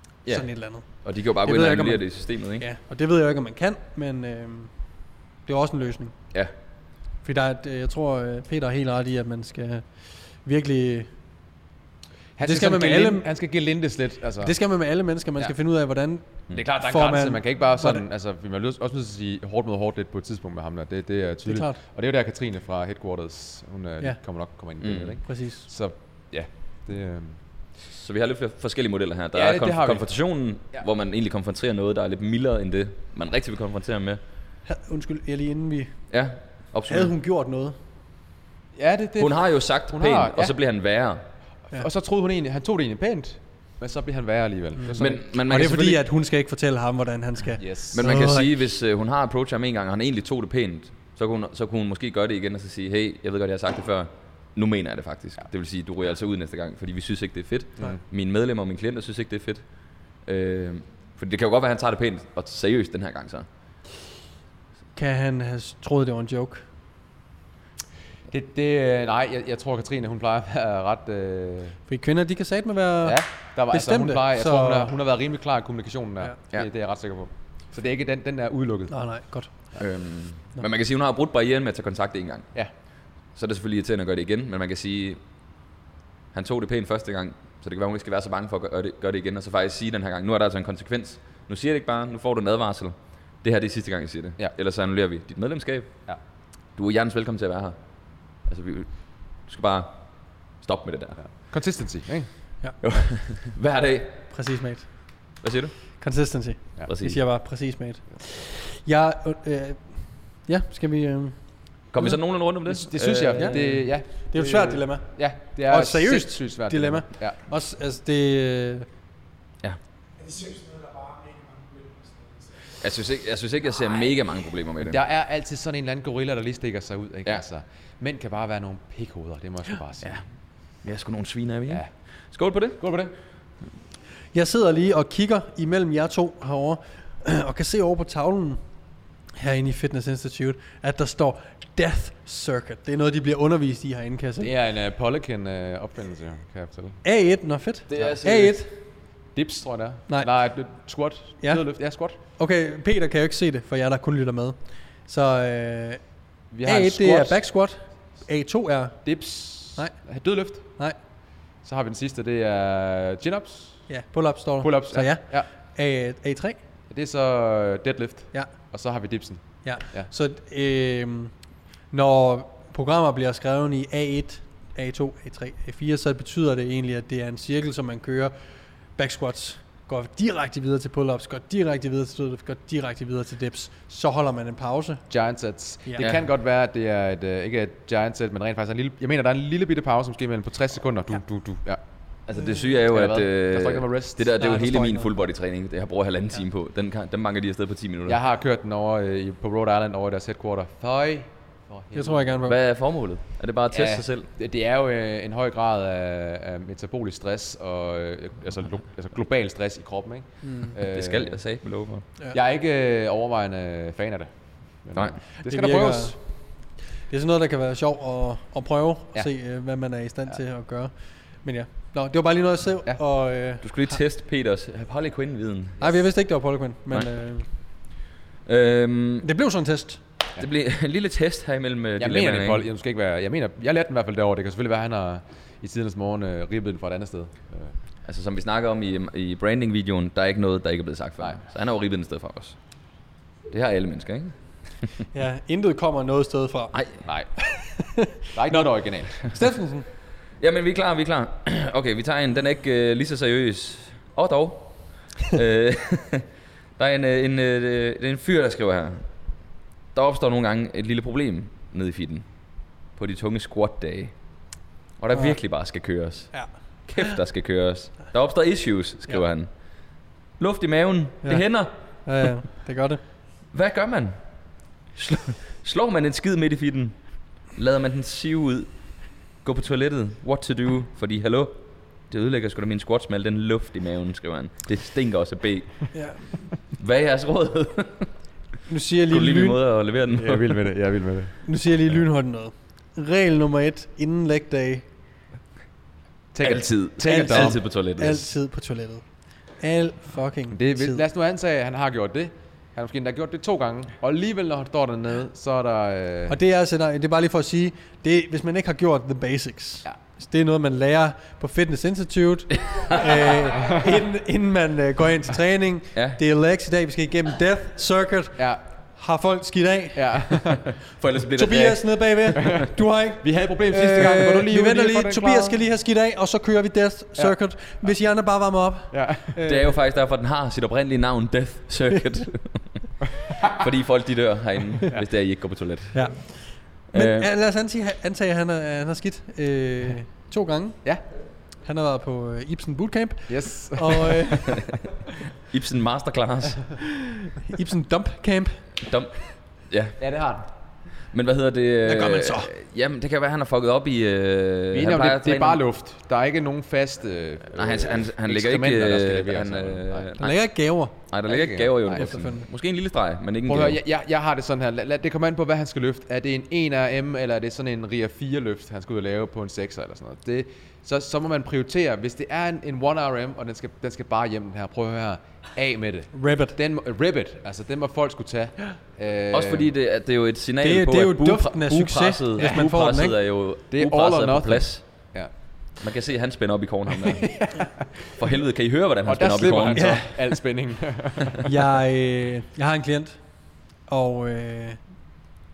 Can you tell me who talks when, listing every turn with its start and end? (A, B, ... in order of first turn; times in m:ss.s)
0:00.3-0:00.8 A
0:01.0-0:02.6 B
0:01.4-0:02.0 A
0:02.6-0:04.8 A
0:05.4-0:06.1 A
0:07.2-0:11.1 A
0:12.4-0:14.5 C
0:12.4-0:13.3 A
0:14.4-0:18.0 A
0:16.5-0:27.4 C
0:21.4-0:21.8 A
0:24.8-0:25.1 B
0:25.2-0:25.6 A
0:27.9-0:34.2 B
0:29.3-0:30.0 C
0:34.7-0:35.9 A
0:36.1-0:37.1 B
0:36.9-0:37.8 A
0:38.7-0:40.5 C
0:39.2-0:41.2 B
0:41.7-0:45.2 C
0:44.8-0:48.5 A
0:45.0-0:46.0 B
0:47.6-0:48.0 C
0:47.9-0:59.6 B
1:00.2-1:03.5 B
1:04.9-1:06.6 A
1:08.3-1:11.8 C
1:11.9-1:13.2 A
1:13.0-1:18.9 C
1:13.7-1:14.9 A
1:18.9-1:19.5 A
1:19.8-1:22.5 B
1:23.3-1:25.2 B
1:26.3-1:36.0 B
1:36.7-1:37.8 B
1:38.3-1:40.0 B
1:40.6-1:41.2 B
1:41.2-1:42.3 C
1:42.8-1:44.1 B
1:44.3-1:45.0 A
1:45.4-1:45.7 B
1:46.0-1:52.2 A
1:46.9-1:47.2 B
1:51.9-1:53.6 B
1:52.7-1:57.4 C
1:53.4-1:55.1 A
1:55.7-1:58.8 A
2:02.8-2:05.0 B
2:04.8-2:10.2 C
2:10.8-2:12.8 B
2:12.8-2:13.1 C
2:14.3-2:18.6 A
2:19.4-2:24.5 A
2:24.4-2:27.0 C
2:27.0-2:28.7 A
2:27.9-2:28.6 B
2:29.3-2:32.2 C
2:32.3-2:36.0 A
2:36.5-2:37.4 C
2:36.6-2:39.0 A
2:39.0-2:40.6 C
2:41.6-2:43.8 C
2:43.9-2:46.6 A
2:44.6-2:45.5 C
2:46.9-2:50.1 C
2:49.6-2:51.3 A
2:51.9-2:58.3 A
2:59.0-3:05.0 A
3:05.1-3:11.8 C
3:12.3-3:18.2 B
3:12.9-3:14.3 C
3:14.4-3:15.1 A
3:18.1-3:22.3 C
3:21.9-3:22.6 A
3:22.4-3:24.3 B
3:23.7-3:31.4 C
3:30.4-3:30.7 A
3:30.9-3:32.0 B
3:32.3-3:34.3 C
3:34.8-3:36.2 C
3:35.4-3:36.2 A
3:37.1-3:40.9 A
3:41.4-3:44.0 A
3:43.6-3:45.8 B
3:45.8-3:47.5 A
3:48.4-3:49.3 B
3:49.2-3:50.0 A
3:50.4-3:52.6 B
3:52.0-3:57.7 C
3:58.0-4:02.6 B
4:03.5-4:04.3 B
4:05.1-4:06.8 A
4:06.7-4:07.0 B
4:07.4-4:09.9 A
4:08.3-4:09.3 C
4:10.4-4:16.2 B
4:16.8-4:19.0 B
4:19.9-4:22.2 B
4:23.0-4:24.1 B
4:25.0-4:26.3 B
4:26.8-4:29.5 B
4:30.4-4:31.7 B
4:32.0-4:33.0 A
4:33.5-4:34.2 B
4:35.0-4:37.0 B
4:37.5-4:38.7 B
4:39.4-4:41.5 B
4:42.1-4:45.9 B
4:45.9-4:46.2 A
4:46.7-4:48.1 B
4:48.7-4:49.6 A
4:49.1-4:50.6 B
4:50.1-4:51.3 C
4:51.4-4:54.8 A
4:56.3-4:57.6 C
4:56.4-4:58.3 B
4:57.0-4:59.0 A
4:59.6-5:01.0 A
5:00.5-5:06.3 C
5:06.3-5:18.4 A
5:12.5-5:13.4 B
5:15.9-5:16.2 B
5:19.0-5:20.4 A
5:19.9-5:20.7 C
5:21.0-5:22.0 B
5:21.3-5:29.5 A
5:22.4-5:22.6 C
5:23.2-5:25.6 C
5:28.9-5:29.6 C
5:29.4-5:36.1 B
5:35.9-5:40.8 A
5:36.9-5:37.3 B
5:41.6-5:44.6 A
5:43.3-5:44.4 C
5:45.4-5:46.7 B
5:47.4-5:48.6 A
5:48.8-5:50.0 B
5:50.0-5:50.4 C
5:51.1-5:55.6 B
5:51.8-5:52.5 A
5:54.7-6:00.1 C
5:57.5-6:00.4 B
6:00.2-6:00.9 A
6:01.1-6:03.8 B
6:01.3-6:02.1 C
6:01.9-6:02.4 A
6:03.4-6:19.7 C
6:16.1-6:16.6 A
6:19.3-6:24.8 B
6:20.6-6:23.2 A
6:23.7-6:25.3 C
6:25.8-6:27.4 B
6:27.2-6:28.1 C
6:28.2-6:30.0 B
6:29.1-6:31.5 C
6:29.7-6:30.1 A
6:31.4-6:33.2 A
6:33.9-6:34.8 A